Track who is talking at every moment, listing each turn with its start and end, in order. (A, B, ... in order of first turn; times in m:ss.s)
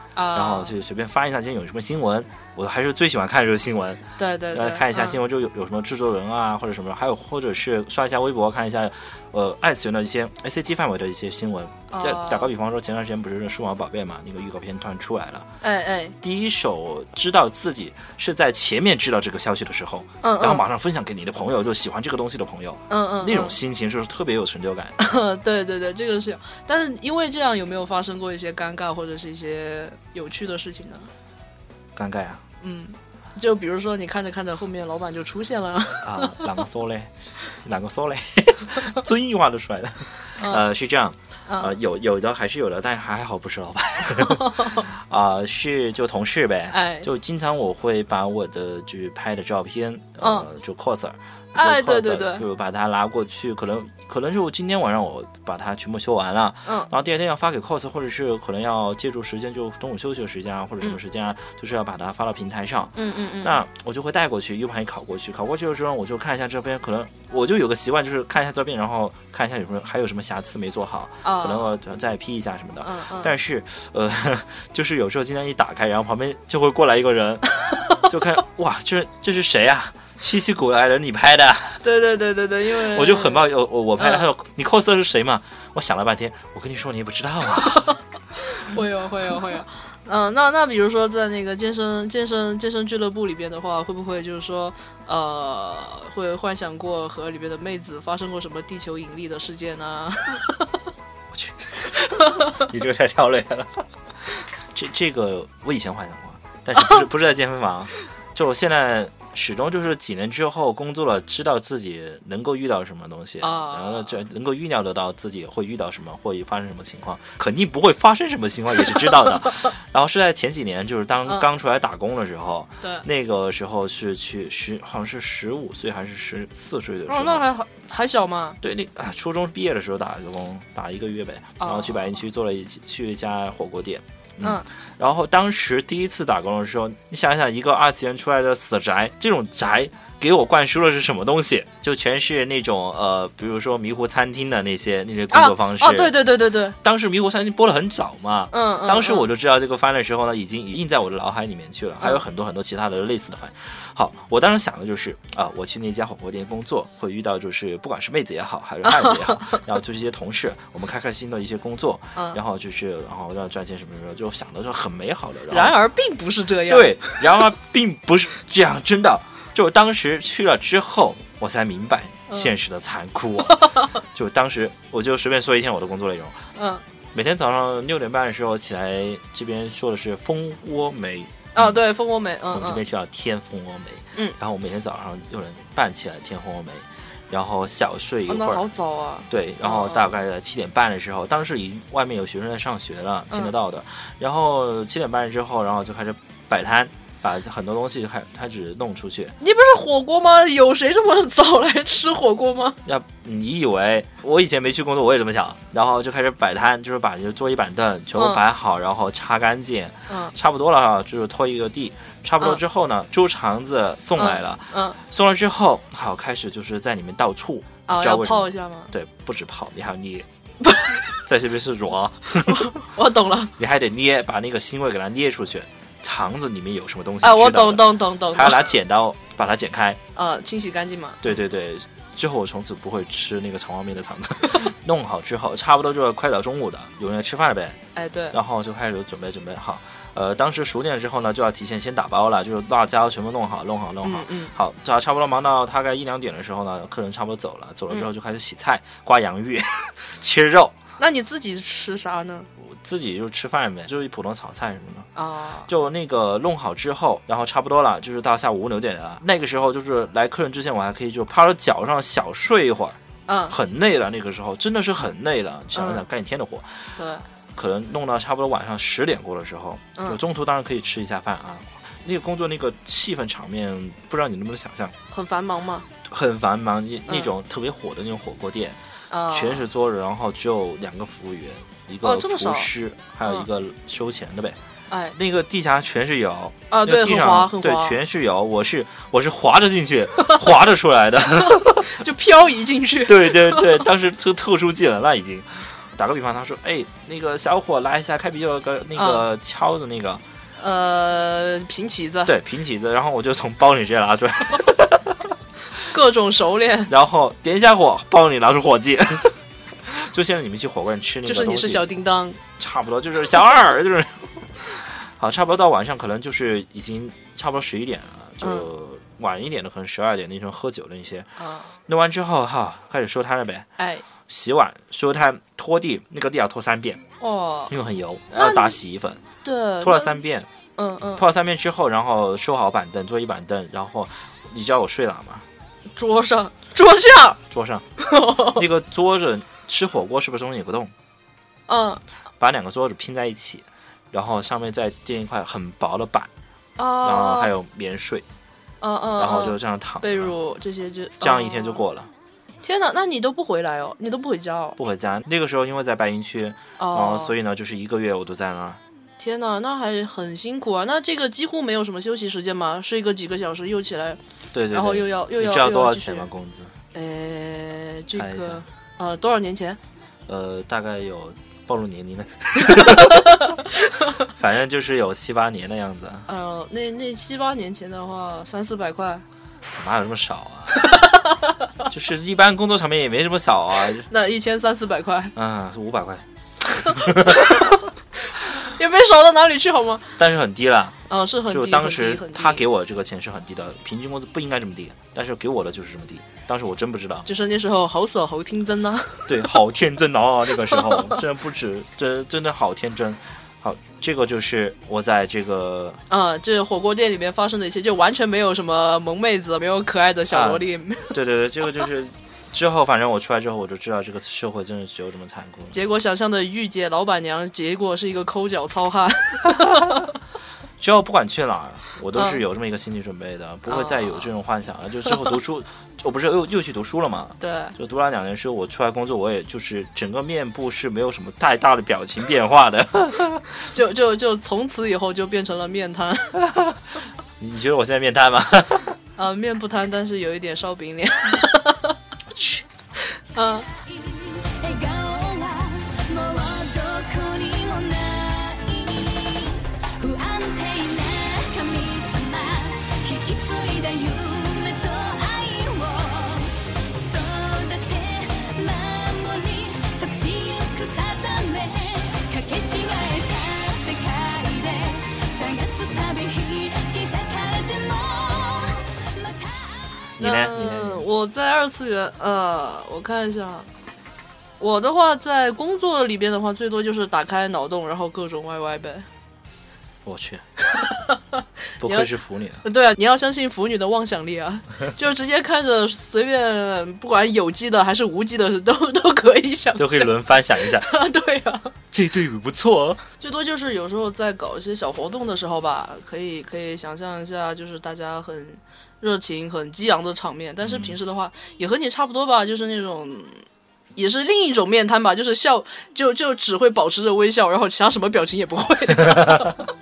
0:00.2-0:00.7 A
0:00.3-0:15.5 B
0:04.2-0:05.2 A
0:11.9-0:12.5 A
0:15.6-0:16.2 A
0:16.2-0:25.0 B
0:20.2-0:20.6 A
0:22.9-0:23.6 A
0:25.0-0:31.1 A
0:32.0-0:32.4 B
0:32.6-0:36.5 A
0:36.0-1:21.8 B
0:40.4-0:40.6 A
0:41.5-0:41.7 A
0:44.2-0:44.9 A
0:46.7-0:47.1 A
0:50.2-0:50.5 A
0:51.6-0:52.4 A
1:03.0-1:03.6 A
1:11.2-1:11.7 A
1:12.8-1:13.3 A
1:21.8-1:24.2 A
1:22.7-1:28.0 B
1:27.8-1:40.7 A
1:41.3-1:43.8 B
1:42.2-1:42.6 A
1:44.7-2:07.5 B
1:46.8-1:47.0 A
1:53.4-1:54.2 A
2:07.1-2:08.6 A
2:08.6-2:26.2 B
2:11.6-2:12.0 A
2:25.3-2:26.8 A
2:26.7-2:45.8 B
2:28.5-2:29.3 A
2:38.8-2:39.6 A
2:45.5-2:47.2 A
2:46.7-2:56.4 B
2:53.6-2:53.9 A
2:56.6-2:56.8 A
2:57.1-3:01.8 B
3:01.6-3:02.8 A
3:02.5-3:08.6 B
3:08.3-3:10.1 A
3:09.3-3:19.4 B
3:19.4-3:22.8 A
3:22.8-3:40.3 B
3:28.2-3:28.4 A
3:30.1-3:30.3 A
3:34.2-3:35.0 A
3:37.9-3:38.9 A
3:40.6-3:41.0 A
3:41.2-3:42.7 B
3:42.5-3:43.5 A
3:43.6-3:50.0 B
3:47.2-3:48.7 A
3:50.2-3:51.2 A
3:51.2-3:57.8 B
3:58.0-3:58.4 A
3:58.3-4:10.8 B
4:04.0-4:04.5 A
4:11.0-4:12.5 A
4:12.6-4:15.1 B
4:15.2-4:15.7 A
4:15.7-4:27.0 B
4:23.3-4:23.6 A
4:25.7-4:26.0 A
4:27.0-4:27.2 A
4:27.5-4:35.0 B
4:35.1-4:35.9 A
4:36.1-4:38.8 B
4:39.1-4:39.6 A
4:39.3-4:44.6 B
4:42.0-4:42.7 A
4:44.9-4:45.2 A
4:45.1-4:52.0 B
4:46.7-4:48.0 A
4:51.4-4:53.9 A
4:53.0-5:00.2 B
4:59.0-4:59.2 A
5:00.6-5:02.3 A
5:02.2-5:05.2 B
5:05.9-5:06.9 A
5:06.9-5:12.0 B
5:11.3-5:12.4 A
5:12.6-5:21.3 B
5:18.4-5:18.7 A
5:21.4-5:21.7 A
5:21.9-5:23.7 B
5:23.8-5:24.0 A
5:24.3-5:27.0 B
5:27.2-5:27.7 A
5:27.7-5:29.2 B
5:28.3-5:28.8 A
5:29.4-5:30.2 A
5:29.8-5:30.5 B
5:30.8-5:31.2 A
5:31.2-5:35.5 B
5:36.0-5:37.4 A
5:37.5-5:40.9 B
5:38.0-5:38.6 A
5:41.7-5:42.0 A
5:42.4-5:46.3 B
5:46.8-5:47.5 A
5:47.0-5:48.3 B
5:48.8-5:51.8 A
5:49.2-5:50.4 B
5:51.2-5:52.1 B
5:52.6-5:54.8 A
5:54.8-5:58.8 B
5:56.8-5:57.4 A
5:59.2-6:04.2 A
6:04.5-6:06.8 B
6:04.7-6:06.3 A
6:06.9-6:09.8 A
6:08.1-6:08.6 B
6:10.3-6:13.6 B
6:12.6-6:13.5 A
6:14.2-6:16.3 B
6:16.3-6:19.2 A
6:19.7-6:21.0 B
6:20.8-6:21.2 A
6:21.9-6:24.1 B
6:24.1-6:25.3 A
6:25.4-6:27.8 B
6:26.9-6:27.8 A
6:28.5-6:30.2 A
6:30.2-6:37.3 B
6:31.1-6:32.6 A
6:37.3-6:39.5 A
6:39.3-6:46.0 B
6:40.7-6:41.2 A
6:46.1-6:51.2 A
6:50.3-6:55.8 B
6:55.7-7:00.1 A
6:59.5-7:00.0 B
7:00.8-7:13.5 B
7:02.1-7:02.4 A
7:03.7-7:04.3 A
7:07.4-7:07.8 A
7:13.7-7:16.4 A
7:16.4-7:16.8 B
7:17.4-7:19.0 B
7:19.2-7:22.0 A
7:22.3-7:22.6 B
7:23.3-7:23.7 A
7:23.8-7:50.1 C
7:50.2-7:51.1 B
7:50.2-7:53.7 A
7:54.6-7:59.1 A
8:00.0-8:00.5 B
8:00.7-8:02.1 A
8:01.8-8:02.6 B
8:02.6-8:11.7 A
8:09.8-8:10.9 B
8:11.9-8:13.0 B
8:13.2-8:23.4 A
8:20.6-8:21.0 B
8:24.0-8:29.6 A
8:29.0-8:29.6 B